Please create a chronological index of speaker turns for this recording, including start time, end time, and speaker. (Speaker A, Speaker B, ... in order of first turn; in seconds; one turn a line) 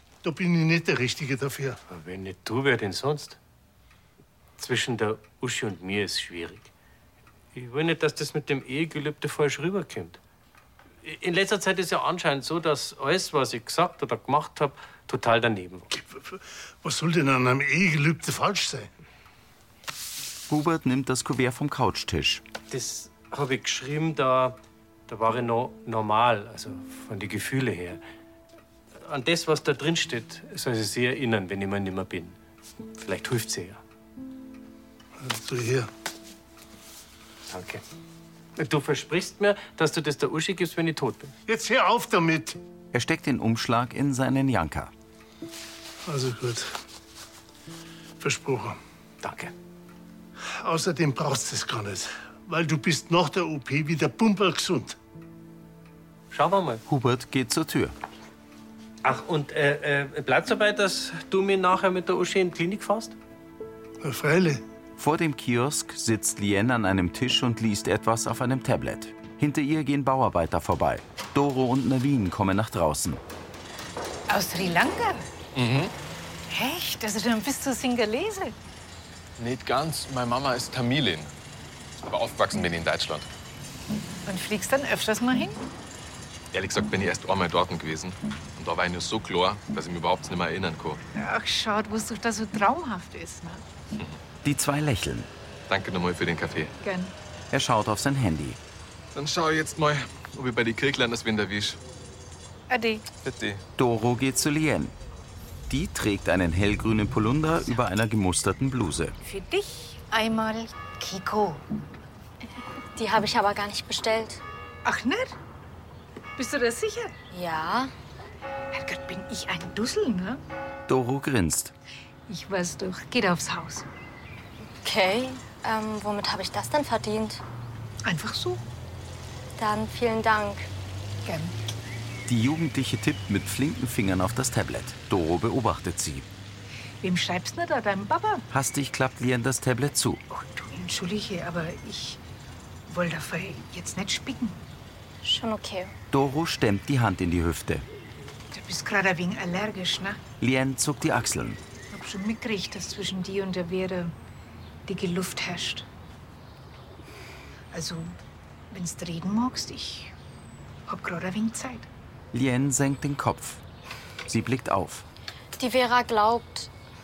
Speaker A: 0.2-1.8
Speaker B: 1.9-3.4
Speaker B: 4.6-6.7
Speaker B: 7.5-10.2
Speaker B: 11.0-15.9
Speaker A: 15.9-18.9
Speaker C: 20.5-22.4
Speaker B: 22.7-24.6
Speaker B: 25.1-28.0
Speaker B: 29.0-32.4
Speaker B: 33.0-33.8
Speaker A: 35.2-35.9
Speaker B: 37.5-37.8
Speaker B: 38.6-41.3
Speaker A: 41.5-42.6
Speaker C: 42.9-44.9
Speaker A: 46.1-46.7
Speaker A: 48.2-48.8
Speaker B: 49.2-49.5
Speaker A: 50.5-55.0
Speaker B: 56.3-56.8
Speaker C: 56.9-58.0
Speaker B: 59.0-63.1
Speaker A: 64.0-64.6
Speaker C: 65.0-73.2
Speaker D: 74.3-75.3
Speaker E: 75.5-75.9
Speaker D: 76.5-78.5
Speaker E: 79.4-81.3
Speaker E: 82.0-83.3
Speaker D: 84.3-85.6
Speaker E: 86.5-91.0
Speaker D: 91.2-93.6
Speaker C: 94.4-95.3
Speaker E: 95.7-96.7
Speaker D: 96.8-97.1
Speaker C: 97.5-98.6
Speaker E: 99.1-101.8
Speaker D: 102.7-103.0
Speaker E: 103.2-103.6
Speaker C: 103.8-104.9
Speaker C: 105.7-109.2
Speaker D: 109.2-111.7
Speaker F: 113.0-114.4
Speaker D: 114.8-115.4
Speaker D: 116.4-117.2
Speaker F: 117.3-117.9
Speaker D: 118.7-120.4
Speaker C: 120.9-121.7
Speaker D: 122.3-123.9
Speaker F: 124.7-127.4
Speaker D: 128.1-128.6
Speaker F: 129.6-130.7
Speaker D: 131.2-131.6
Speaker C: 132.3-136.3
Speaker D: 137.0-138.4
Speaker C: 138.5-140.2
Speaker D: 140.3-142.2
Speaker D: 142.9-144.6
Speaker F: 145.2-145.9
Speaker C: 146.1-147.8
Speaker D: 148.5-150.2
Speaker C: 150.4-151.6
Speaker D: 151.9-154.1
Speaker D: 154.9-155.9
Speaker D: 157.7-158.1
Speaker D: 158.7-160.1
Speaker D: 160.9-161.9
Speaker C: 162.3-163.6
Speaker C: 164.3-165.1
Speaker F: 165.6-166.7